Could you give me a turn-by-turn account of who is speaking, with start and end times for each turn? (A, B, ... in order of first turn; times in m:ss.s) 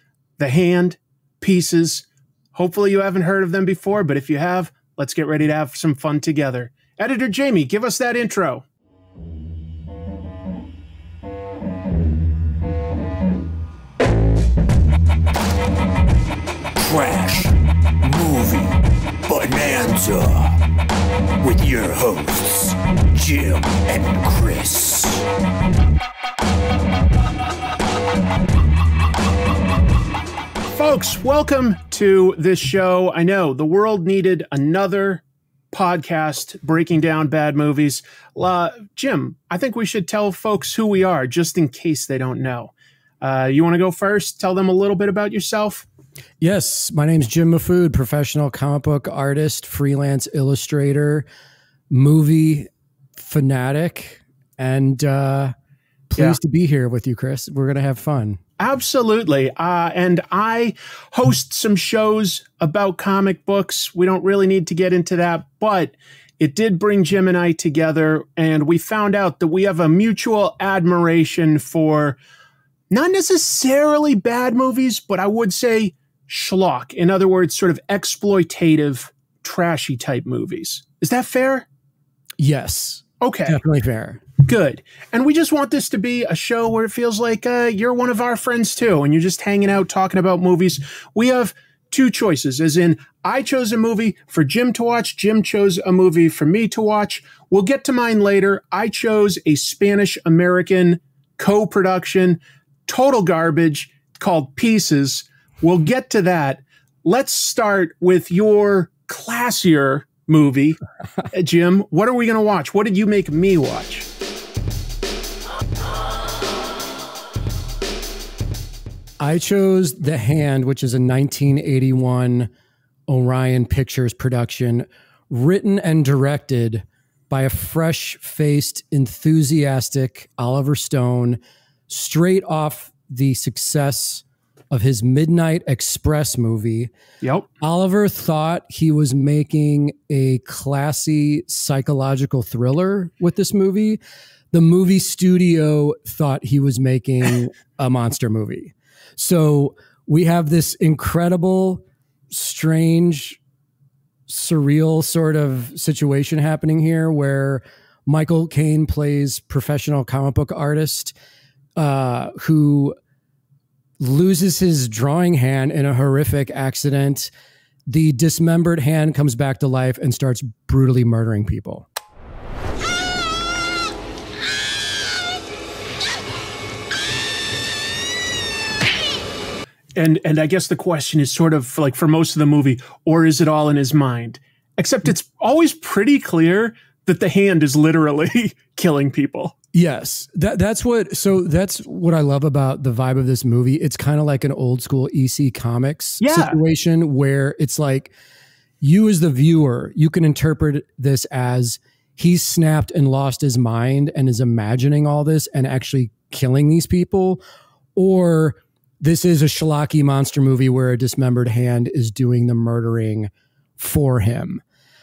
0:00.4-0:08.6 A
0:16.8-0:20.6 B
0:21.4-0:25.2 B
0:30.7-0:45.8 A
0:46.4-0:51.3 C
0:51.9-0:55.5 C
0:56.1-0:58.4 C
0:58.6-1:12.2 A
1:12.9-1:21.7 A
1:22.4-1:24.2 C
1:23.2-1:23.6 A
1:24.4-1:50.8 A
1:51.3-1:54.1 A
1:59.2-2:02.5 C
2:03.1-2:16.9 C
2:17.2-2:17.5 A
2:17.6-2:24.0 C
2:24.5-2:33.4 C
2:34.3-2:41.1 C
2:41.8-2:43.0 C
2:44.0-2:47.3 C
2:47.9-2:51.9 C
3:00.0-3:09.6 A
3:09.7-3:18.1 C
3:16.2-3:16.6 A
3:18.8-3:27.4 C
3:27.9-3:34.6 C